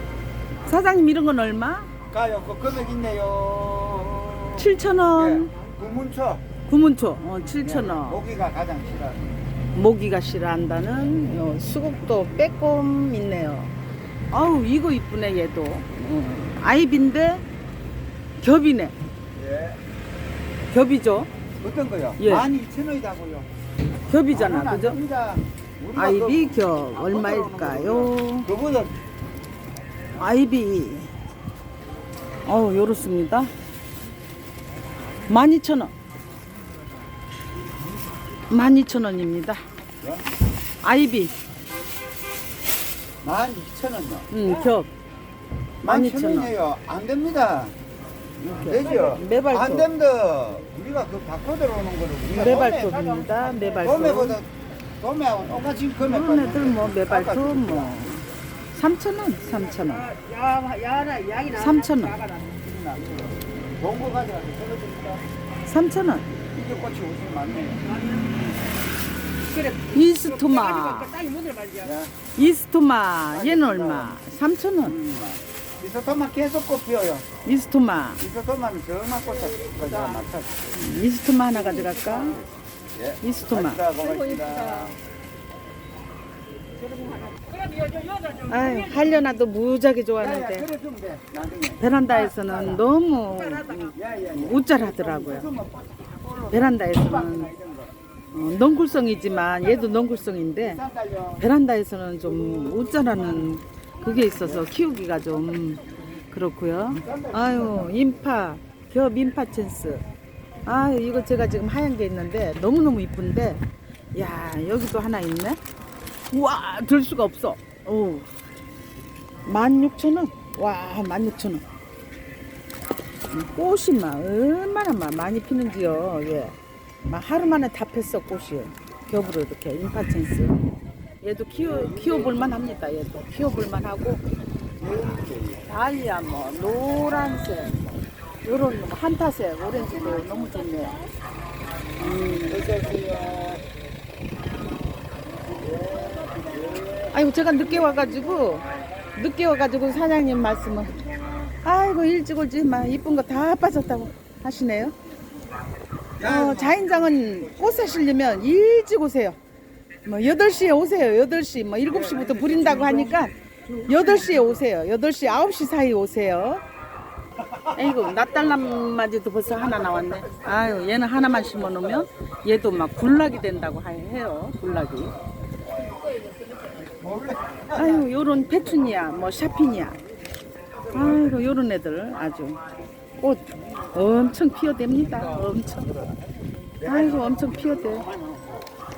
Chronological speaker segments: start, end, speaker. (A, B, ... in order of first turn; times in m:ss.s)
0:00.7-0:01.9 A
0:02.1-0:06.4 B
0:04.6-0:05.5 A
0:06.7-0:08.2 A
0:07.6-0:09.4 B
0:09.8-0:13.7 A
0:14.3-0:17.4 A
0:18.4-0:19.0 A
0:19.4-0:19.8 B
0:20.7-0:21.3 A
0:21.6-0:23.5 B
0:22.2-0:22.5 A
0:24.1-0:25.0 A
0:24.3-0:29.0 B
0:25.9-0:28.5 A
0:30.2-0:31.1 A
0:32.4-0:33.5 A
0:35.3-0:35.9 A
0:38.5-0:39.6 A
0:40.8-0:41.3 A
0:43.2-0:44.3 B
0:44.3-0:44.9 A
0:45.8-0:47.8 B
0:45.8-0:46.5 A
0:48.4-0:49.9 A
0:48.5-0:53.2 B
0:52.3-0:54.4 A
0:53.1-0:54.0 C
0:53.8-0:58.0 B
0:56.0-1:00.1 A
0:59.6-1:02.7 C
1:01.5-1:02.2 A
1:02.7-1:05.2 B
1:05.7-1:06.3 A
1:06.5-1:07.8 B
1:07.8-1:08.6 C
1:09.5-1:11.9 C
1:09.9-1:11.2 A
1:11.8-1:12.1 B
1:12.4-1:15.0 A
1:13.3-1:14.2 B
1:14.8-1:17.3 B
1:17.4-1:18.2 A
1:18.2-1:20.7 B
1:19.8-1:20.2 C
1:20.7-1:22.4 A
1:21.7-1:22.4 C
1:22.9-1:25.0 B
1:23.2-1:23.8 A
1:24.1-1:24.9 C
1:26.8-1:28.6 C
1:28.5-1:30.7 A
1:30.2-1:32.8 B
1:31.8-1:35.5 A
1:33.6-1:33.8 C
1:33.9-1:37.9 B
1:36.5-1:37.5 A
1:38.3-1:40.8 A
1:40.6-1:41.4 B
1:41.4-1:50.0 A
1:42.2-1:43.5 B
1:44.4-1:44.7 B
1:46.9-1:48.2 B
1:50.6-1:53.6 A
1:54.1-1:55.6 A
1:56.3-1:58.3 A
1:59.5-2:01.6 A
2:03.3-2:10.7 A
2:11.2-2:14.2 A
2:11.7-2:12.3 B
2:14.8-2:15.6 B
2:15.6-2:21.0 A
2:22.0-2:22.7 A
2:22.5-2:23.6 B
2:25.6-2:27.2 B
2:27.1-2:31.0 A
2:31.6-2:35.0 A
2:36.2-2:38.0 B
2:36.2-2:39.4 A
2:40.0-2:43.3 A
2:41.9-2:44.4 B
2:43.8-2:46.6 A
2:47.4-2:48.6 B
2:47.8-2:55.1 A
2:49.5-2:51.2 B
2:56.9-2:58.7 B
2:57.7-3:00.0 A
3:00.7-3:01.4 B
3:00.9-3:02.6 A
3:03.2-3:05.9 A
3:05.1-3:06.2 B
3:06.8-3:08.5 B
3:06.8-3:08.1 A